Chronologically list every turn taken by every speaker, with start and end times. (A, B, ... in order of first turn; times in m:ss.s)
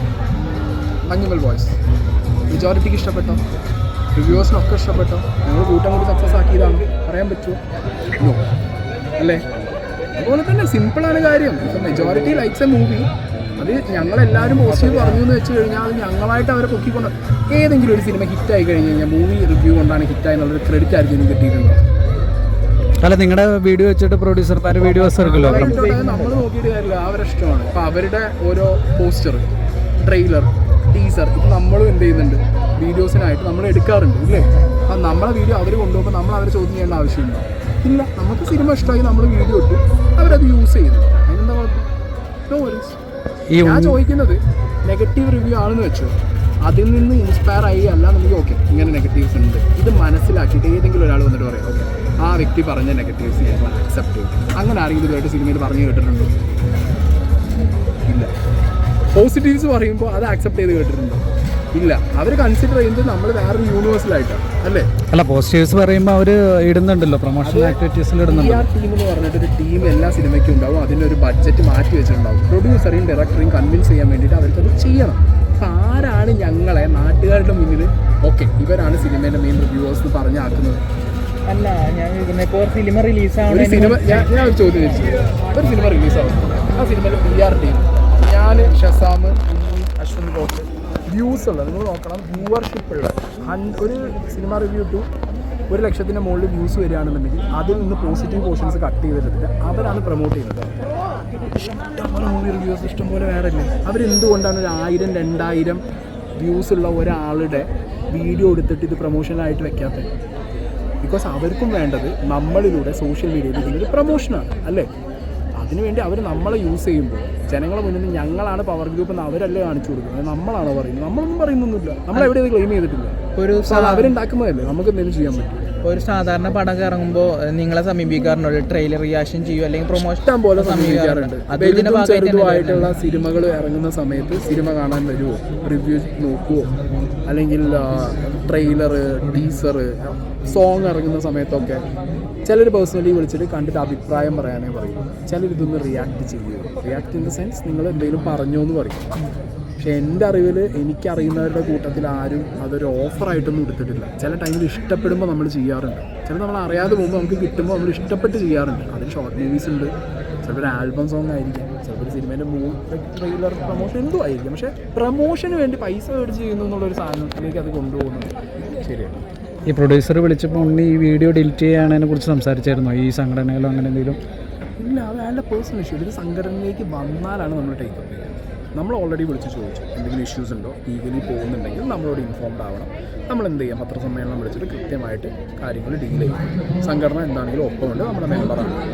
0:00.3-0:01.8 A
0:02.5-0:03.4 A
0:04.1-0:07.6 A
0:09.2-0:09.5 A
0:10.2-0:21.8 A
0:23.0-0:25.7 B
0:24.8-0:26.5 C
0:25.3-0:29.4 A
0:30.0-0:41.9 A
0:42.5-0:43.0 A
0:43.5-0:44.0 B
0:43.6-0:56.3 A
0:59.1-1:01.2 A
1:01.7-1:04.9 A
1:05.1-1:08.6 B
1:07.4-1:20.8 A
1:21.5-1:24.3 C
1:23.5-1:35.0 A
1:35.7-1:40.7 A
1:41.5-1:45.8 A
1:46.4-1:50.1 A
1:51.0-1:54.9 A
1:55.5-2:05.7 A
2:03.3-2:04.1 C
2:05.8-2:12.9 C
2:10.0-2:16.7 A
2:17.3-2:21.8 A
2:22.4-2:29.1 A
2:29.8-2:39.9 A
2:40.4-2:49.2 A
2:49.7-2:54.2 B
2:54.8-3:08.7 A